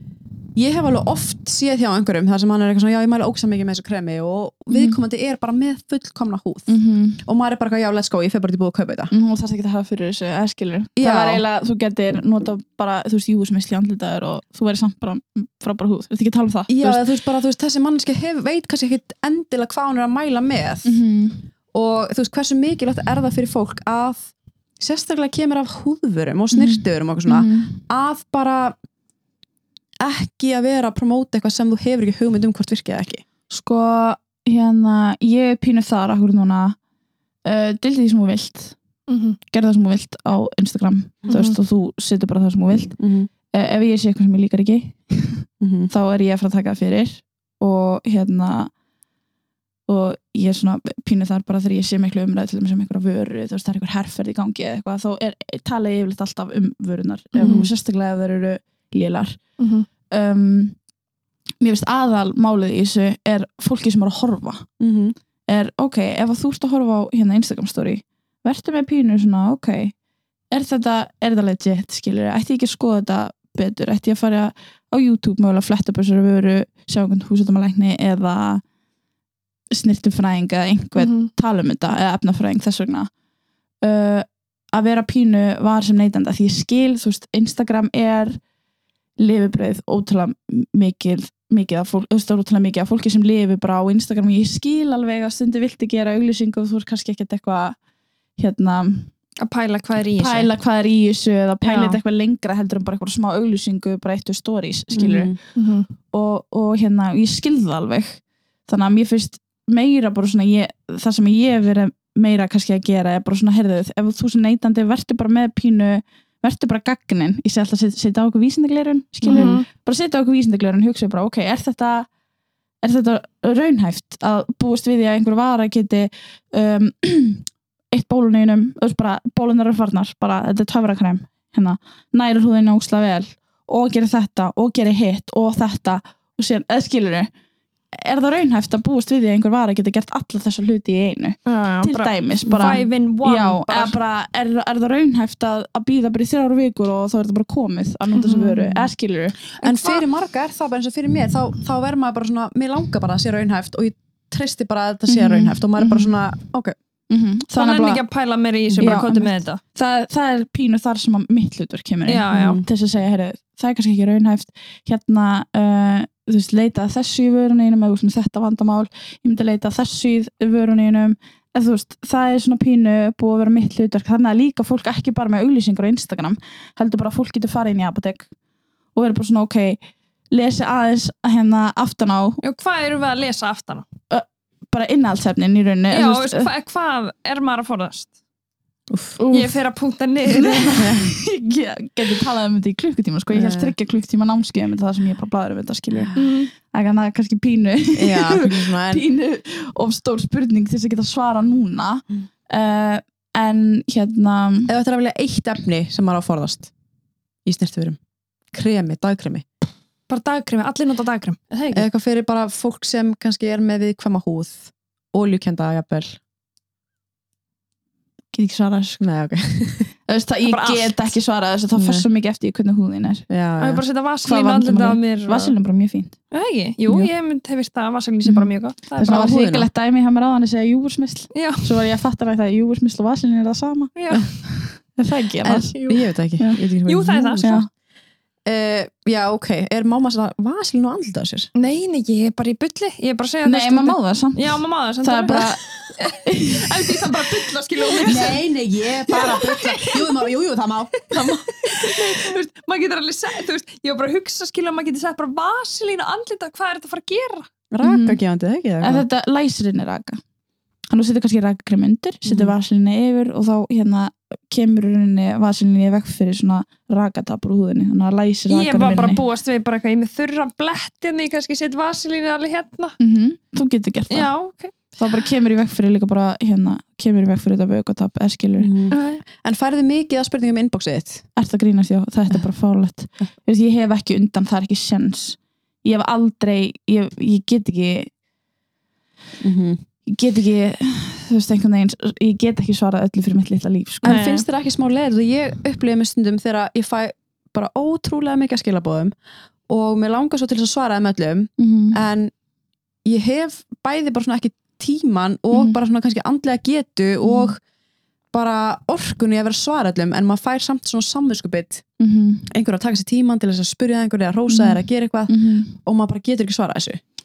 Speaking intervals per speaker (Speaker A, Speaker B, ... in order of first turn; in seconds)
Speaker A: 0.6-9.1, 11.0-11.4, 16.7-21.0, 21.7-28.8, 30.0-33.2, 43.0-43.3, 45.6-45.9, 57.4-57.7, 64.8-65.2, 104.9-105.4, 119.3-119.5, 142.5-142.8, 149.6-156.8, 162.3-162.7, 188.9-189.2, 190.8-191.2, 193.3-193.8, 197.9-199.0, 204.7-206.7, 207.5-208.0, 208.5-209.4, 211.7-216.2, 219.0-219.9, 221.8-222.1, 223.3-223.8, 229.0-229.7, 235.4-237.6, 238.5-241.5, 248.0-251.2, 257.7-259.1, 262.2-262.5, 278.6-281.3, 289.4-289.8, 294.0-299.1, 299.7-302.3, 303.1-307.6, 308.3-311.8, 312.5-317.0
Speaker B: 4.7-5.0, 6.7-7.2, 9.1-17.0, 20.8-21.5, 26.5-27.8, 33.5-36.8, 37.5-38.8, 39.4-43.0, 43.5-48.7, 49.9-59.4, 60.1-60.8, 61.6-64.7, 65.5-69.9, 70.5-78.6, 79.7-83.1, 83.8-88.4, 89.2-97.8, 98.4-99.1, 100.2-105.4, 106.1-122.1, 122.8-137.3, 137.9-150.0, 155.1-156.2, 157.1-158.0, 158.8-178.3, 178.9-182.4, 184.1-186.5, 189.2-189.6, 190.3-204.7, 218.3-219.0, 220.1-223.3, 224.2-226.2, 229.0-233.9, 234.4-235.8, 237.4-237.7, 243.4-245.6, 246.2-247.0, 247.9-248.3, 257.8-258.2, 258.8-260.2, 260.9-269.2, 273.0-274.3, 275.0-278.8, 281.4-288.1, 290.1-294.2, 301.6-302.0, 305.5-305.8, 307.2-307.6, 312.0-312.5, 314.5-315.7
Speaker C: 39.1-39.4, 41.3-41.6, 57.4-57.6, 59.6-59.9, 81.0-81.3, 99.4-100.5, 101.6-102.0, 105.6-105.9, 119.2-119.7, 141.5-143.9, 148.1-148.7, 157.5-159.6, 162.1-162.6, 182.4-183.8, 185.9-188.1, 189.3-190.9, 196.2-196.5, 210.1-211.8, 220.4-221.1, 223.6-225.5, 226.3-229.3, 231.3-231.7, 234.0-234.3, 236.9-237.6, 241.6-248.4, 249.1-250.1, 251.1-257.5, 268.5-273.0, 274.1-274.7, 278.9-279.2, 294.1-294.5